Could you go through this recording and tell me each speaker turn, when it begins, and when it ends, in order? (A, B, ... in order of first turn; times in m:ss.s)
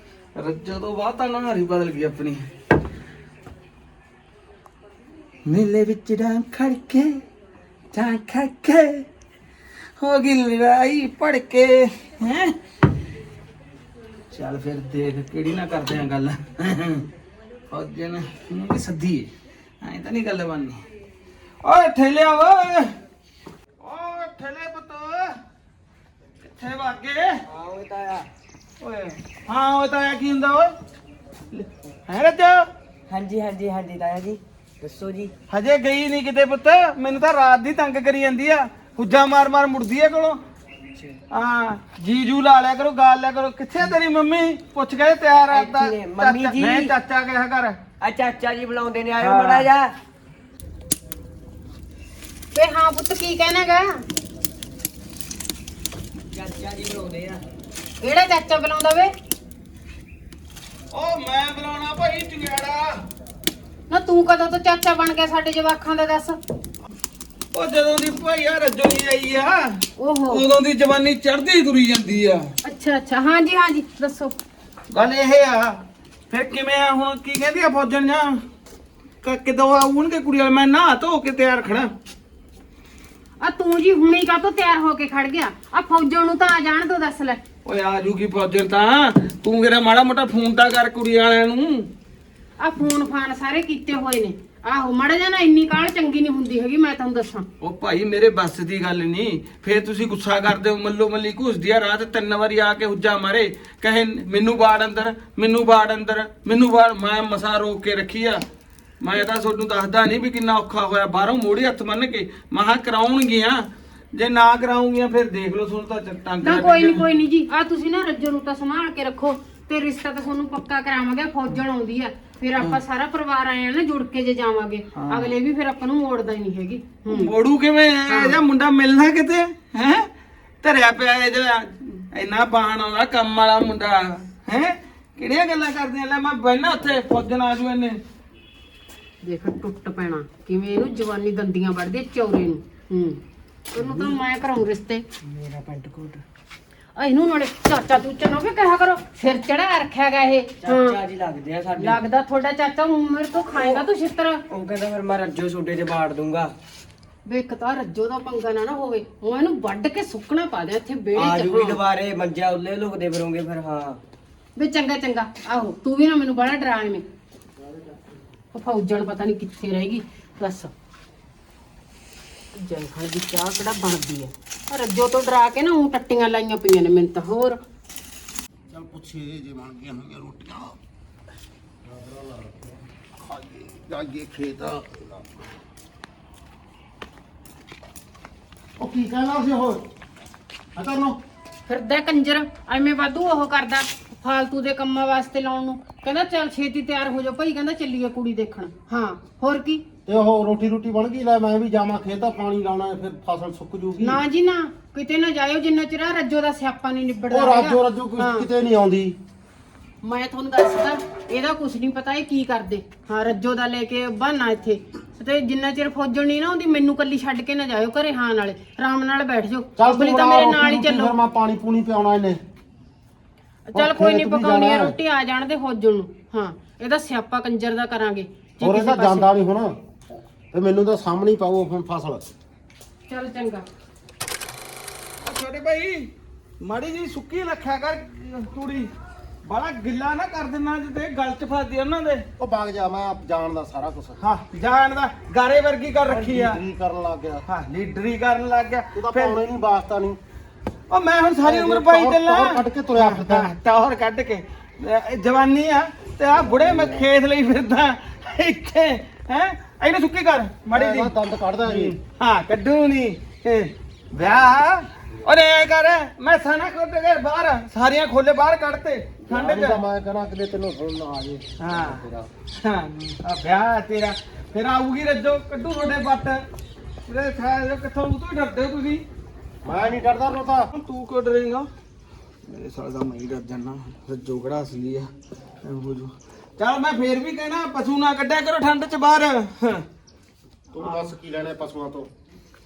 0:00.4-0:02.5 A
0:05.4-0:07.2 A
0:07.9-0:09.0 A
0:10.0-0:12.6 A
0:14.3-0:17.0 A
0:17.7-0:19.3 A
0:19.8-0:20.8 A
0:21.6-0:22.9 A
0:23.8-0:25.4 A
0:26.4-0:27.4 A
0:27.5-0:28.3 B
0:28.8-0:30.7 A
0:31.5-0:32.7 A
0:33.1-0:35.3 B
0:35.5-0:40.4 A
0:41.3-0:47.8 A
0:45.4-0:46.9 B
0:48.0-0:49.9 B
0:49.2-0:49.7 A
0:52.5-0:54.0 C
0:56.3-0:57.4 B
0:58.0-0:59.1 C
1:00.9-1:03.0 A
1:03.9-1:06.4 C
1:07.5-1:12.5 A
1:10.0-1:10.4 C
1:12.6-1:14.3 C
1:14.9-1:18.4 A
1:19.2-1:21.9 A
1:23.4-1:27.4 C
1:27.6-1:31.9 A
1:32.6-1:37.4 C
1:37.6-1:48.4 A
1:49.0-1:57.1 A
1:56.4-2:07.3 C
2:04.9-2:05.3 A
2:07.1-2:10.1 A
2:08.1-2:08.4 C
2:10.6-2:18.0 A
2:19.2-2:23.2 C
2:23.7-2:25.0 C
2:23.8-2:24.1 B
2:25.2-2:26.2 B
2:27.0-2:31.0 C
2:30.6-2:32.0 B
2:31.8-2:34.4 C
2:33.5-2:33.8 B
2:34.5-2:36.5 B
2:37.2-2:41.8 C
2:41.1-2:44.0 B
2:44.6-2:47.0 C
2:48.5-2:50.7 C
2:52.5-2:57.6 C
2:58.7-3:00.8 D
3:01.8-3:02.7 D
3:03.2-3:05.2 D
3:08.8-3:09.8 D
3:10.8-3:11.2 D
3:11.7-3:19.8 C
3:20.0-3:24.2 D
3:24.0-3:28.5 C
3:27.3-3:29.2 D
3:30.0-3:41.2 C
3:39.8-3:42.4 D
3:43.7-3:49.3 C
3:43.7-3:45.0 D
3:48.6-3:49.7 D
3:50.5-3:52.3 D
3:53.1-3:53.6 C
3:55.2-3:56.1 A
3:56.6-3:58.9 A
3:59.4-4:02.2 A
4:02.4-4:04.2 D
4:04.2-4:06.6 A
4:06.1-4:07.4 D
4:07.5-4:09.4 A
4:08.9-4:10.2 D
4:10.9-4:29.8 A
4:11.4-4:13.5 D
4:20.7-4:21.9 D
4:29.3-4:32.3 D
4:31.6-4:32.0 A
4:32.6-4:36.4 A
4:37.1-4:39.0 A
4:39.6-4:40.7 D
4:40.7-4:41.7 A
4:42.5-4:45.1 A
4:45.6-4:49.8 A
4:50.7-4:52.1 D
4:50.8-4:51.1 A